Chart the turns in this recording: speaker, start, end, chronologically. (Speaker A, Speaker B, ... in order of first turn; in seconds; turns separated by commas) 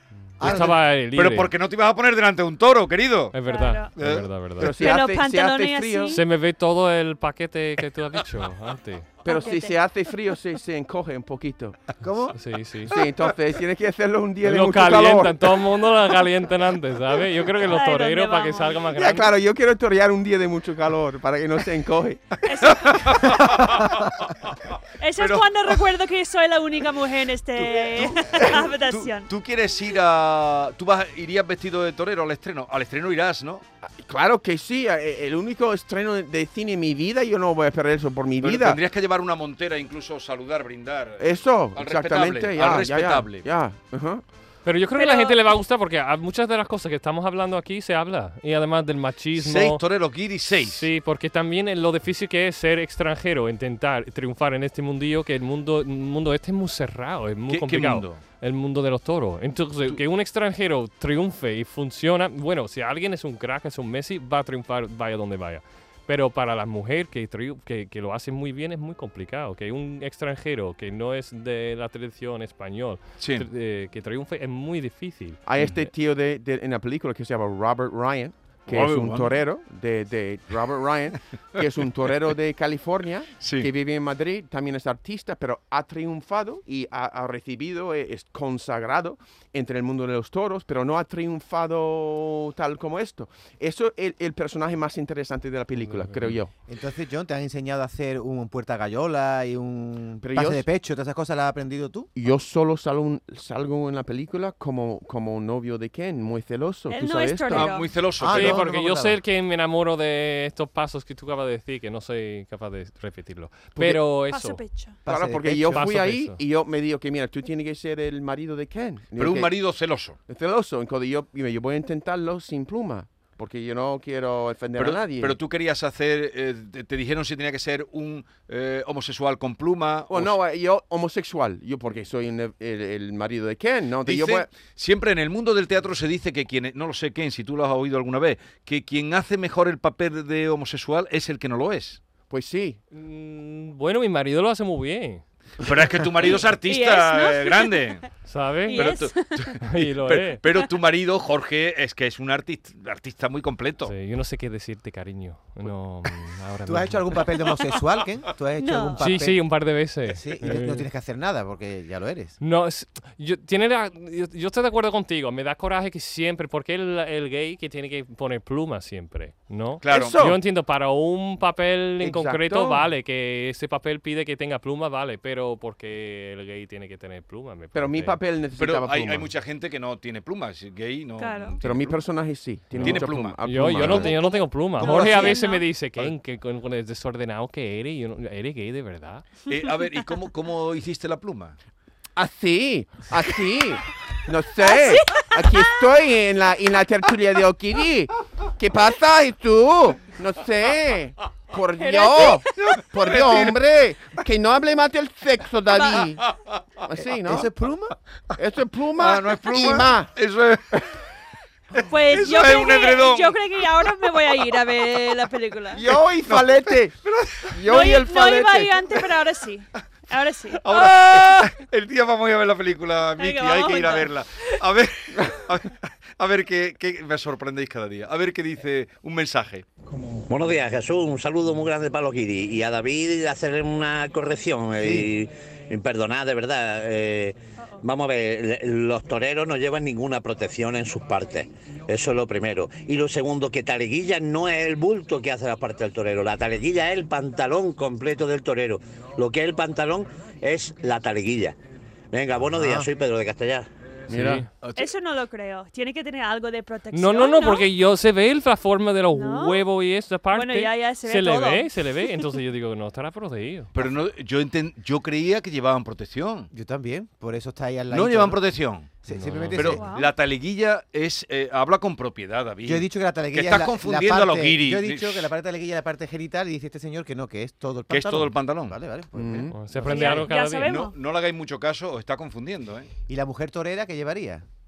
Speaker A: 0.4-0.8, Speaker B: 0.4-1.5, Speaker C: 1.1-3.4, Speaker B: 3.3-4.8, Speaker D: 3.5-3.9, Speaker C: 4.0-4.8, Speaker E: 4.6-6.2, Speaker D: 4.8-6.2, Speaker B: 6.1-9.1, Speaker D: 9.2-9.8, Speaker E: 9.2-11.8, Speaker A: 12.0-12.4, Speaker B: 12.3-12.9, Speaker E: 12.9-15.5, Speaker B: 14.4-19.3, Speaker D: 17.7-18.9, Speaker E: 18.9-22.4, Speaker D: 22.4-23.3, Speaker C: 22.6-25.8, Speaker D: 25.0-29.3, Speaker C: 27.6-33.6, Speaker E: 34.0-38.8, Speaker C: 38.4-43.5, Speaker E: 41.2-44.2, Speaker B: 44.6-49.8, Speaker D: 45.0-45.4, Speaker C: 49.4-50.9, Speaker B: 50.6-75.4, Speaker C: 57.5-58.2, Speaker C: 73.2-73.5, Speaker E: 75.5-96.5, Speaker C: 75.6-75.8, Speaker C: 78.7-79.3, Speaker C: 83.4-83.7, Speaker B: 95.8-96.3, Speaker A: 96.7-102.1, Speaker E: 100.2-100.6, Speaker E: 102.2-107.7, Speaker D: 106.9-107.9, Speaker C: 107.5-108.7, Speaker A: 108.2-109.2, Speaker B: 108.3-114.6, Speaker E: 113.8-114.0, Speaker D: 114.3-115.0, Speaker A: 115.0-116.0, Speaker E: 115.1-119.5, Speaker B: 115.7-116.4, Speaker C: 119.2-120.2, Speaker E: 120.3-125.4, Speaker C: 124.8-130.4, Speaker E: 130.1-134.5, Speaker C: 134.1-142.0, Speaker E: 142.3-142.8, Speaker B: 142.9-145.2, Speaker C: 145.6-148.1, Speaker D: 146.7-148.0, Speaker B: 148.3-149.0, Speaker D: 148.7-149.6, Speaker C: 148.7-153.9, Speaker B: 149.6-150.4, Speaker B: 153.8-157.2, Speaker A: 156.7-162.4, Speaker D: 158.6-159.2, Speaker B: 159.0-160.9, Speaker B: 162.4-178.2, Speaker C: 169.8-170.2, Speaker E: 169.9-170.4, Speaker E: 172.0-172.8, Speaker E: 177.7-179.3, Speaker C: 178.6-182.0, Speaker D: 181.2-181.6, Speaker E: 181.6-184.2, Speaker B: 182.8-189.2, Speaker C: 182.8-184.3, Speaker C: 184.8-185.4, Speaker D: 184.8-185.7, Speaker C: 189.5-191.6, Speaker E: 192.2-206.2, Speaker D: 194.6-195.8, Speaker D: 201.8-202.6, Speaker C: 202.6-203.6, Speaker D: 205.7-206.1, Speaker C: 205.9-206.4, Speaker E: 206.8-207.5, Speaker A: 207.0-207.9, Speaker E: 208.4-210.1, Speaker C: 209.0-210.8, Speaker C: 211.8-214.1, Speaker D: 211.8-215.8, Speaker E: 215.7-216.9, Speaker C: 215.9-217.6, Speaker E: 217.5-219.0, Speaker D: 217.7-221.5, Speaker C: 220.6-229.7, Speaker D: 223.2-224.6, Speaker F: 230.3-251.6, Speaker A: 234.8-235.1, Speaker F: 252.1-253.7, Speaker A: 252.5-252.9, Speaker E: 254.1-254.4, Speaker B: 254.1-254.5, Speaker C: 254.6-254.9, Speaker D: 254.8-257.7, Speaker B: 256.9-263.7, Speaker D: 259.1-259.6, Speaker D: 260.3-261.8, Speaker C: 263.7-266.5, Speaker A: 266.5-268.4, Speaker C: 267.9-268.9, Speaker A: 269.0-269.8, Speaker B: 269.1-269.8, Speaker C: 269.5-275.3, Speaker D: 269.7-270.1, Speaker A: 272.6-280.2, Speaker C: 277.9-278.8, Speaker E: 279.1-279.6, Speaker B: 279.5-280.7, Speaker D: 279.8-280.9, Speaker C: 280.6-282.9, Speaker A: 283.1-284.4